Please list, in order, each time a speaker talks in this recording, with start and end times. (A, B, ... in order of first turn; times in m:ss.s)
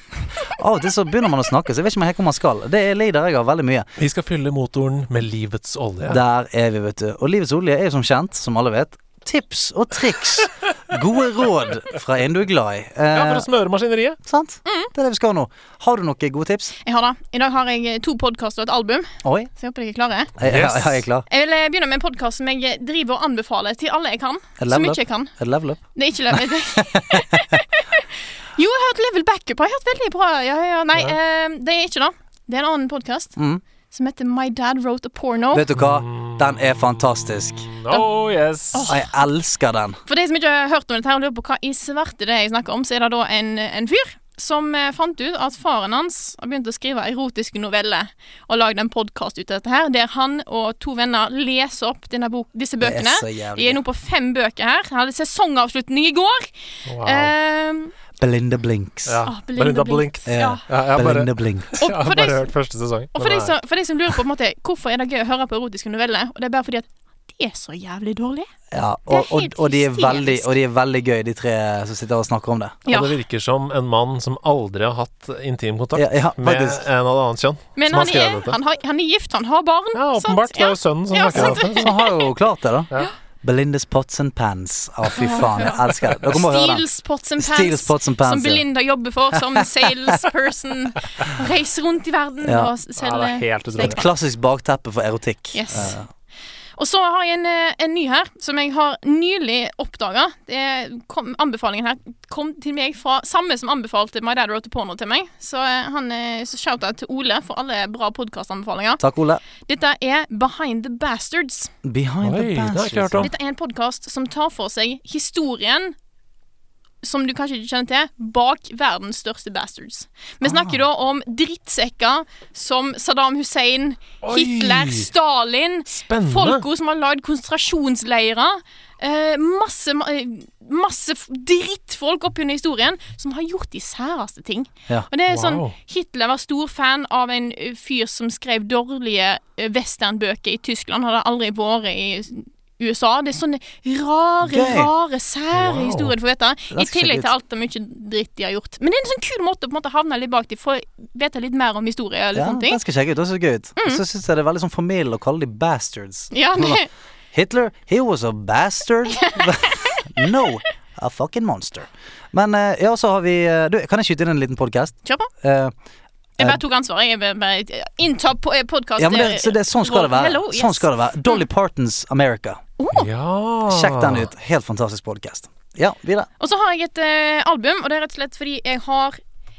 0:00.4-0:03.9 A
0:04.0-0:06.2 B
0:06.0-0:13.5 A
0:13.1-0:14.2 B
0:14.2-0:16.7 A
0:14.6-0:14.9 C
0:16.8-0:20.3 C
0:19.2-0:19.5 A
0:20.4-0:21.2 A
0:20.4-0:21.0 B
0:21.3-0:25.3 C
0:24.6-0:27.6 A
0:25.9-0:33.4 C
0:33.4-0:33.6 A
0:33.9-0:35.6 C
0:35.5-0:37.7 A
0:35.8-0:36.9 B
0:37.6-0:38.9 B
0:38.7-0:39.0 C
0:38.9-0:40.0 A
0:40.0-0:56.5 C
0:52.8-0:53.8 A
0:56.9-0:57.3 B
0:57.0-0:57.9 C
0:58.2-0:59.2 A
0:59.1-1:03.6 B
0:59.2-1:00.6 C
1:00.2-1:01.7 A
1:01.8-1:02.5 C
1:03.1-1:08.5 C
1:08.7-1:12.8 A
1:09.1-1:10.6 C
1:12.9-1:13.2 C
1:12.9-1:18.6 B
1:15.9-1:16.8 A
1:17.8-1:22.1 C
1:19.9-1:21.9 B
1:21.3-1:22.9 A
1:23.4-1:26.8 A
1:25.1-1:34.0 C
1:27.4-1:28.6 A
1:29.5-1:30.1 A
1:32.4-1:32.7 A
1:33.0-1:34.0 B
1:33.8-1:36.1 A
1:35.5-1:36.0 C
1:36.8-1:49.0 C
1:49.0-1:49.4 A
1:49.6-1:51.7 C
1:51.8-1:53.3 A
1:52.2-1:53.3 B
1:53.2-1:55.9 C
1:57.0-2:32.8 C
2:00.4-2:00.8 A
2:04.2-2:05.1 B
2:05.9-2:06.6 B
2:15.3-2:15.7 B
2:24.4-2:24.9 A
2:25.5-2:26.1 B
2:26.7-2:27.3 A
2:32.3-2:45.7 A
2:33.8-2:34.0 C
2:36.3-2:36.9 C
2:39.2-2:40.0 C
2:45.0-2:45.3 C
2:46.4-2:51.4 C
2:49.0-2:52.6 A
2:52.8-2:53.1 C
2:52.9-2:54.3 B
2:53.7-2:56.3 A
2:56.4-2:59.2 C